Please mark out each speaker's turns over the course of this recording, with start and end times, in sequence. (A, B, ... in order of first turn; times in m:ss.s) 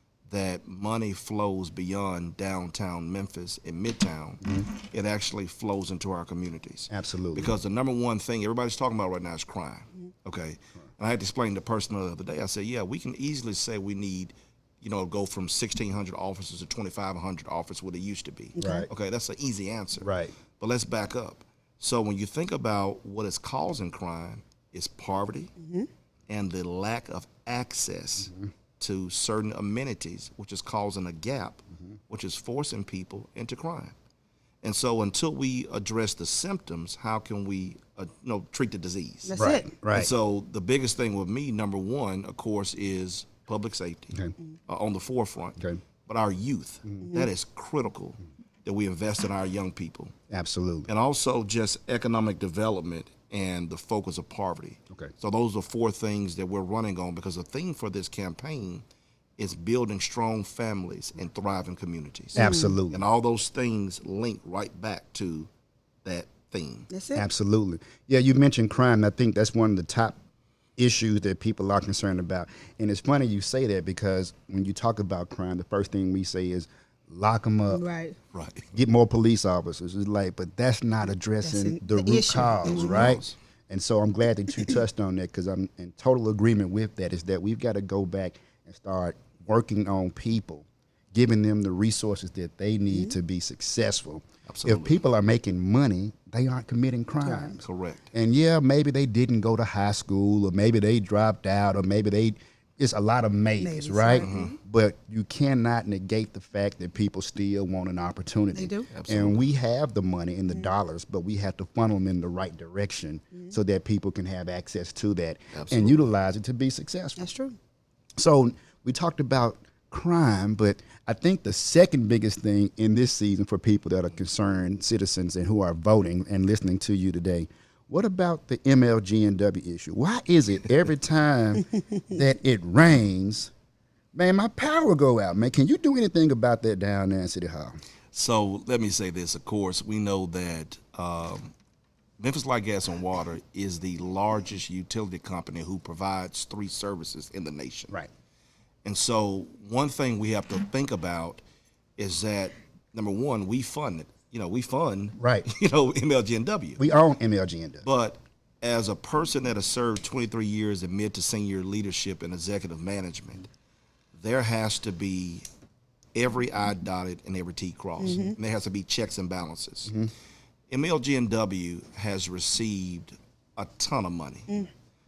0:00.3-0:25.5 A
0:06.9-0:07.5 B
0:18.6-0:18.9 C
0:18.6-0:18.9 B
0:20.0-0:20.3 B
0:25.6-0:25.9 C
0:26.3-0:33.9 A
0:34.6-0:50.1 A
0:39.3-0:39.7 C
0:39.4-0:40.1 B
0:47.0-0:47.3 C
0:50.3-0:50.9 B
0:50.9-0:58.8 A
0:59.4-1:05.5 A
1:02.4-1:02.8 C
1:02.4-1:03.0 B
1:06.0-1:06.9 A
1:06.9-1:07.2 C
1:07.2-1:10.2 B
1:10.8-1:17.8 B
1:17.7-1:18.2 C
1:18.3-1:18.7 A
1:18.7-1:57.2 B
1:21.4-1:23.2 C
1:22.6-1:23.4 A
1:32.9-1:33.2 C
1:34.5-1:35.0 A
1:37.2-1:37.6 C
1:37.6-1:38.1 A
1:43.6-1:44.5 C
1:44.2-1:44.6 A
1:48.6-1:48.9 C
1:48.9-1:49.5 A
1:50.5-1:50.8 C
1:55.5-1:56.0 A
1:57.2-1:57.6 C
1:58.2-2:13.5 B
2:14.1-2:17.8 B
2:18.1-2:21.5 A
2:22.2-2:28.0 A
2:28.8-2:31.4 A
2:32.0-2:36.8 A
2:35.2-2:35.5 B
2:36.8-2:37.8 B
2:37.8-2:43.5 A
2:44.1-2:45.4 A
2:46.2-2:50.0 A
2:48.0-2:48.4 C
2:50.7-2:54.5 A